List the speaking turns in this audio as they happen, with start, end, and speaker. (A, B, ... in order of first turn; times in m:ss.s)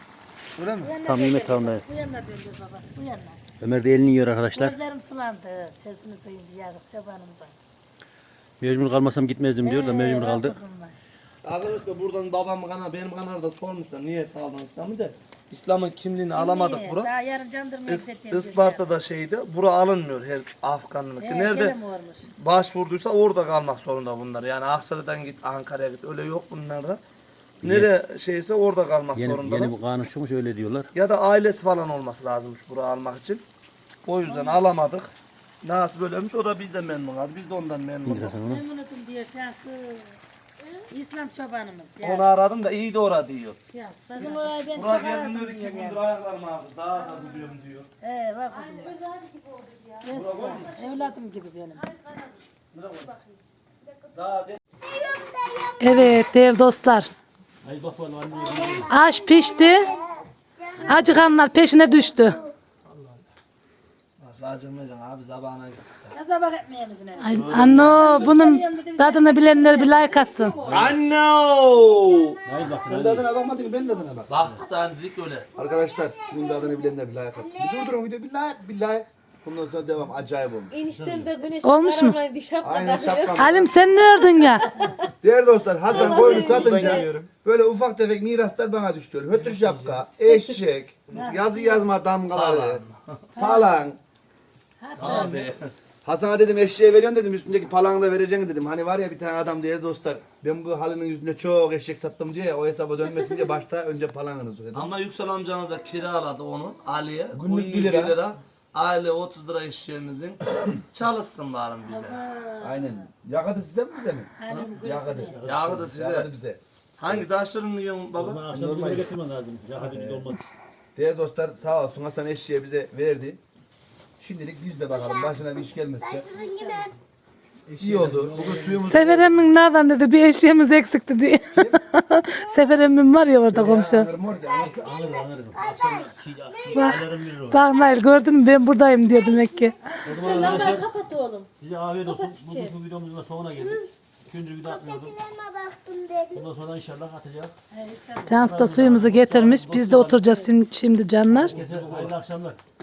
0:00.6-0:01.0 A
0:00.8-0:03.4 B
0:01.0-0:01.8 C
0:03.6-0:04.8 C
0:04.5-0:07.6 B
0:08.6-0:10.6 C
0:09.6-0:11.0 B
0:11.4-0:17.1 A
0:16.3-0:18.9 B
0:17.8-0:21.8 A
0:21.2-0:22.3 B
0:22.4-0:27.0 A
0:27.6-0:29.8 A
0:27.6-0:27.9 C
0:29.1-0:30.9 C
0:30.9-0:33.4 A
0:34.0-0:38.4 A
0:34.2-0:34.6 B
0:38.0-0:38.6 C
0:38.4-0:40.2 B
0:40.9-0:42.3 B
0:42.0-0:43.6 A
0:43.7-0:46.0 B
0:44.2-0:47.9 A
0:48.0-0:49.0 B
0:49.2-0:49.7 D
0:50.0-0:52.3 B
0:50.1-0:50.8 A
0:52.7-0:53.2 A
0:54.1-0:54.6 A
0:54.8-0:56.1 E
0:55.8-0:57.1 F
0:57.6-0:59.0 C
0:58.3-1:02.5 E
0:58.9-0:59.9 F
0:59.0-0:59.9 B
1:00.8-1:01.2 A
1:00.9-1:02.4 F
1:02.8-1:03.2 A
1:04.2-1:06.1 A
1:06.1-1:10.6 B
1:07.2-1:10.7 F
1:07.3-1:08.6 A
1:10.4-1:10.8 D
1:10.7-1:12.4 A
1:10.7-1:11.0 C
1:11.6-1:12.8 E
1:12.4-1:13.3 C
1:12.8-1:14.3 G
1:13.6-1:14.1 E
1:14.3-1:15.5 A
1:14.3-1:14.6 C
1:15.6-1:18.0 E
1:15.6-1:20.7 G
1:20.7-1:23.5 D
1:20.8-1:21.3 C
1:21.6-1:22.2 F
1:22.6-1:23.8 G
1:23.3-1:24.7 F
1:25.2-1:32.8 G
1:25.9-1:27.3 A
1:26.6-1:26.9 D
1:29.4-1:30.1 C
1:31.1-1:31.9 B
1:32.3-1:33.2 A
1:33.4-1:33.7 B
1:33.4-1:34.0 G
1:34.8-1:35.5 B
1:35.0-1:35.7 A
1:35.0-1:35.3 G
1:36.0-1:44.9 G
1:44.7-1:52.2 A
1:47.3-1:48.2 G
1:51.8-1:53.1 B
1:52.6-1:57.2 G
1:54.4-1:55.4 B
1:54.4-1:54.7 A
1:55.3-1:55.9 C
1:55.4-1:56.3 A
1:57.0-1:58.4 A
1:58.1-2:00.5 C
1:58.5-1:59.1 G
1:59.7-2:00.3 G
2:00.9-2:03.4 G
2:04.2-2:06.2 G
2:04.9-2:05.4 E
2:06.0-2:07.0 E
2:06.3-2:06.9 B
2:07.7-2:09.0 C
2:07.8-2:09.3 G
2:08.8-2:14.1 F
2:11.5-2:11.8 G
2:12.4-2:12.8 E
2:13.5-2:14.8 G
2:14.4-2:17.0 E
2:14.4-2:17.7 C
2:16.8-2:19.7 F
2:17.6-2:18.1 E
2:19.1-2:19.7 E
2:19.9-2:20.8 B
2:20.0-2:20.9 C
2:20.2-2:21.5 D
2:21.6-2:25.2 C
2:22.1-2:22.6 D
2:23.6-2:23.9 E
2:24.6-2:26.4 E
2:26.3-2:27.5 C
2:27.7-2:28.9 B
2:28.3-2:30.4 C
2:28.4-2:31.5 F
2:31.3-2:32.6 C
2:31.5-2:32.1 G